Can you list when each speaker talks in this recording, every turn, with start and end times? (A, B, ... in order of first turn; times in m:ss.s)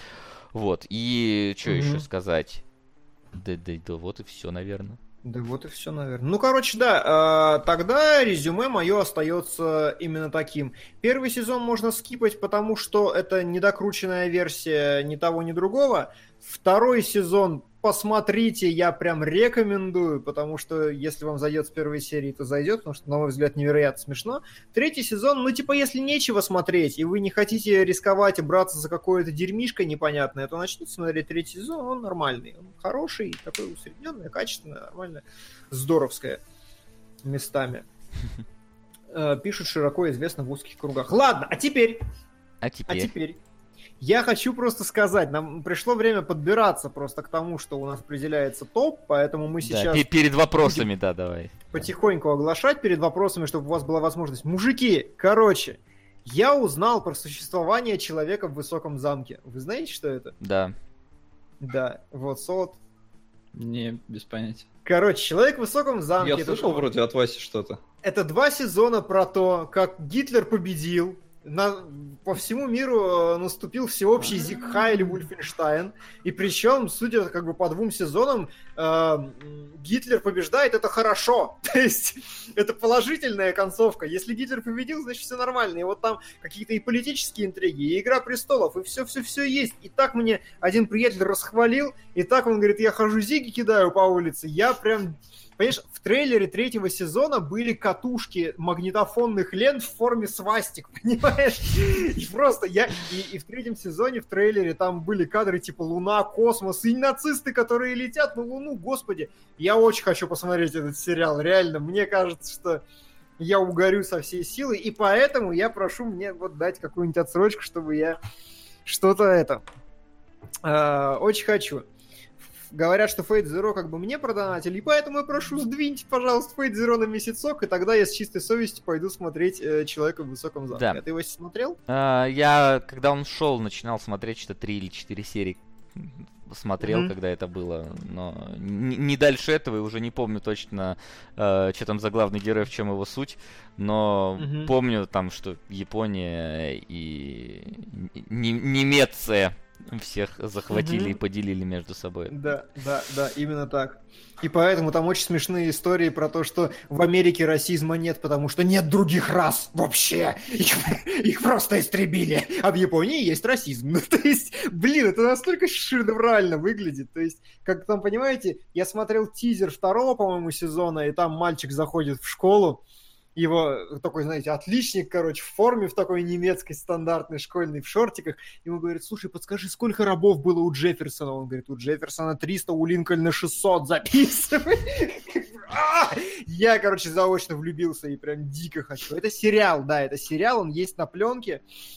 0:00.5-0:02.6 A
0:01.7-0:02.0 B
0:03.3-0:05.0 A
0:05.2-0:36.4 B
0:37.2-0:37.8 B
0:39.1-0:42.0 B
0:42.6-0:43.1 A
0:42.9-0:43.4 B
0:44.0-0:50.1 B
0:49.6-0:51.9 A
0:51.7-1:00.4 B
1:00.4-1:00.8 A
1:01.6-1:02.8 B
1:03.5-1:04.6 C
1:04.8-1:06.9 B
1:06.2-1:07.8 C
1:08.0-1:52.8 B
1:53.4-1:58.2 B
1:58.9-1:59.6 B
2:00.6-2:01.9 B
2:02.7-2:11.8 B
2:10.7-2:11.0 A
2:11.9-2:32.4 A
2:16.8-2:17.1 B
2:24.4-2:24.7 B
2:30.7-2:31.2 B
2:32.3-2:52.8 B
2:53.4-3:11.6 B